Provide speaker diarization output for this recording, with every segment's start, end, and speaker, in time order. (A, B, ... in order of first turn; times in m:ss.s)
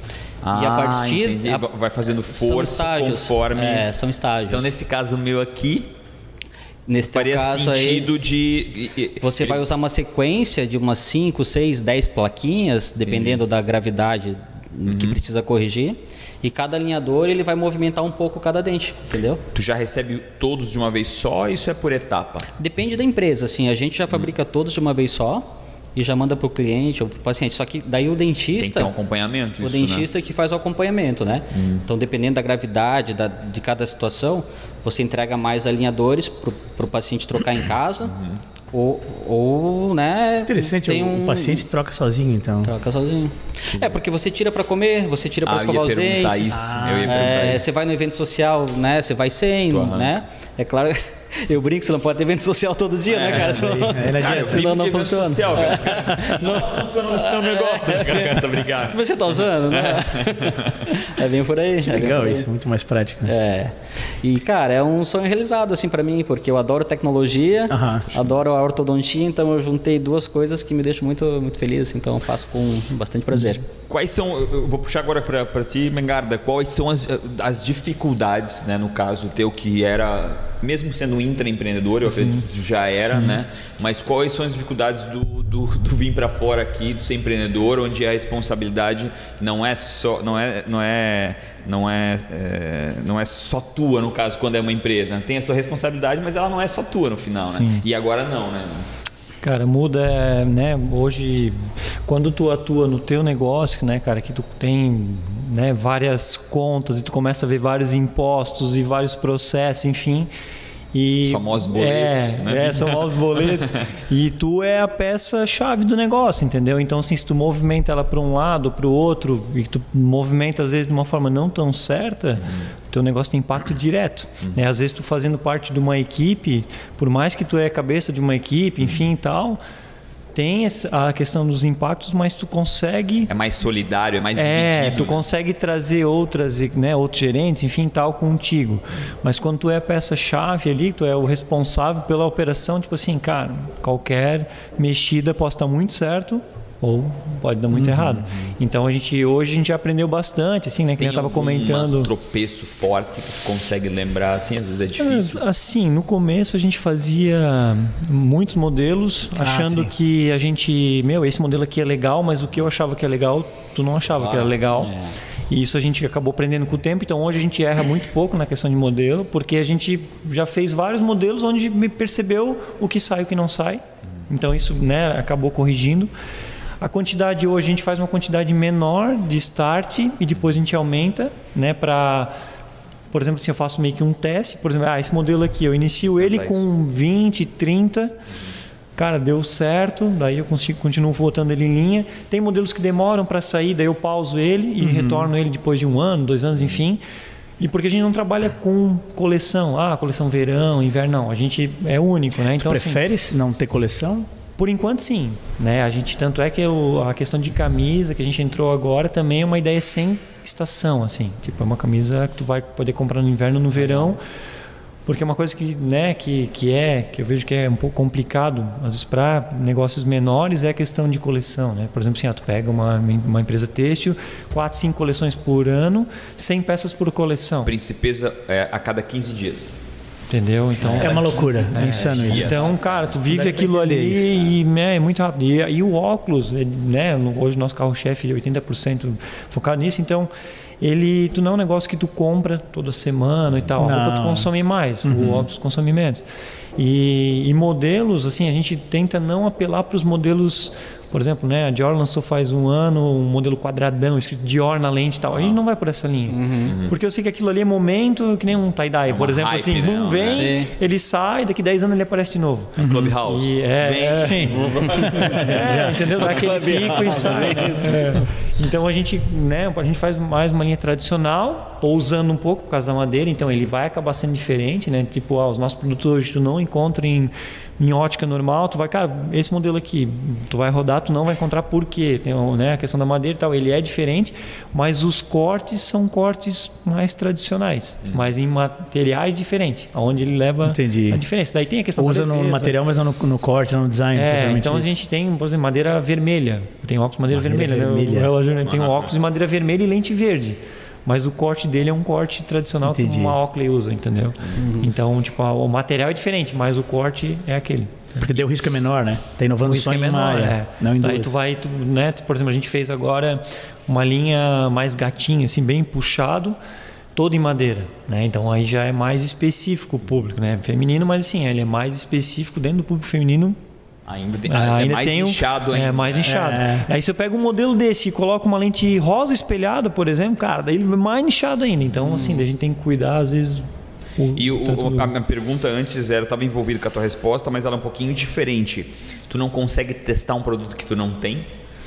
0:00.4-0:03.9 A
0:00.5-0:01.6 B
0:02.3-0:04.7 B
0:04.5-0:05.9 A
0:06.9-0:08.1 B
0:07.1-0:09.6 A
0:09.2-0:19.4 B
0:13.0-0:13.4 A
0:14.8-0:15.2 A
0:19.5-0:22.5 A
0:22.6-0:28.9 B
0:28.6-0:30.1 A
0:29.6-0:38.1 B
0:31.5-0:31.8 A
0:38.1-0:38.4 A
0:38.7-0:41.6 B
0:40.5-0:42.7 C
0:42.6-1:02.5 B
0:43.7-0:44.0 A
0:45.4-0:47.6 A
0:46.5-0:47.6 C
0:49.7-0:50.2 A
0:53.1-1:00.9 A
0:53.2-0:54.6 C
1:01.8-1:03.3 C
1:03.2-1:13.6 B
1:07.7-1:08.1 C
1:13.9-1:38.9 A
1:22.0-1:22.4 D
1:23.1-1:23.4 D
1:37.3-1:37.8 D
1:39.4-1:50.3 D
1:50.9-2:09.6 D
1:51.2-1:53.8 A
2:10.3-2:13.3 D
2:13.3-2:15.2 A
2:14.3-2:32.1 D
2:31.0-2:35.4 A
2:35.0-2:44.9 D
2:39.4-2:39.9 C
2:44.2-2:44.5 A
2:44.8-2:45.1 B
2:45.5-2:56.1 D
2:56.8-3:02.3 D
3:03.1-3:08.2 D
3:06.2-3:06.6 A
3:09.0-3:17.0 D
3:14.8-3:15.3 C
3:17.6-3:23.0 D
3:22.6-3:24.3 C
3:24.6-3:34.2 D
3:35.0-3:47.7 D
3:47.6-3:49.7 A
3:50.3-4:00.3 D
3:50.8-3:53.1 A
3:51.0-3:52.6 C
3:53.3-3:54.3 C
4:00.8-4:06.2 D
4:03.8-4:04.5 C
4:05.0-4:05.4 C
4:05.1-4:05.5 A
4:06.8-4:52.8 D
4:16.3-4:16.7 B
4:16.6-4:17.0 A
4:19.1-4:20.5 A
4:20.3-4:20.7 B
4:22.8-4:28.2 A
4:22.8-4:23.1 C
4:24.2-4:27.5 C
4:27.0-4:27.9 B
4:50.6-4:51.2 C
4:52.0-4:54.8 C
4:54.1-5:08.4 D
4:57.3-4:58.3 C
4:58.6-4:59.1 A
5:02.8-5:03.4 C
5:04.6-5:04.9 B
5:08.2-5:11.3 C
5:09.6-5:16.6 D
5:17.2-5:23.6 D
5:24.1-5:26.6 A
5:24.5-5:35.1 D
5:26.2-5:26.9 C
5:32.0-5:32.4 A
5:34.4-5:41.5 A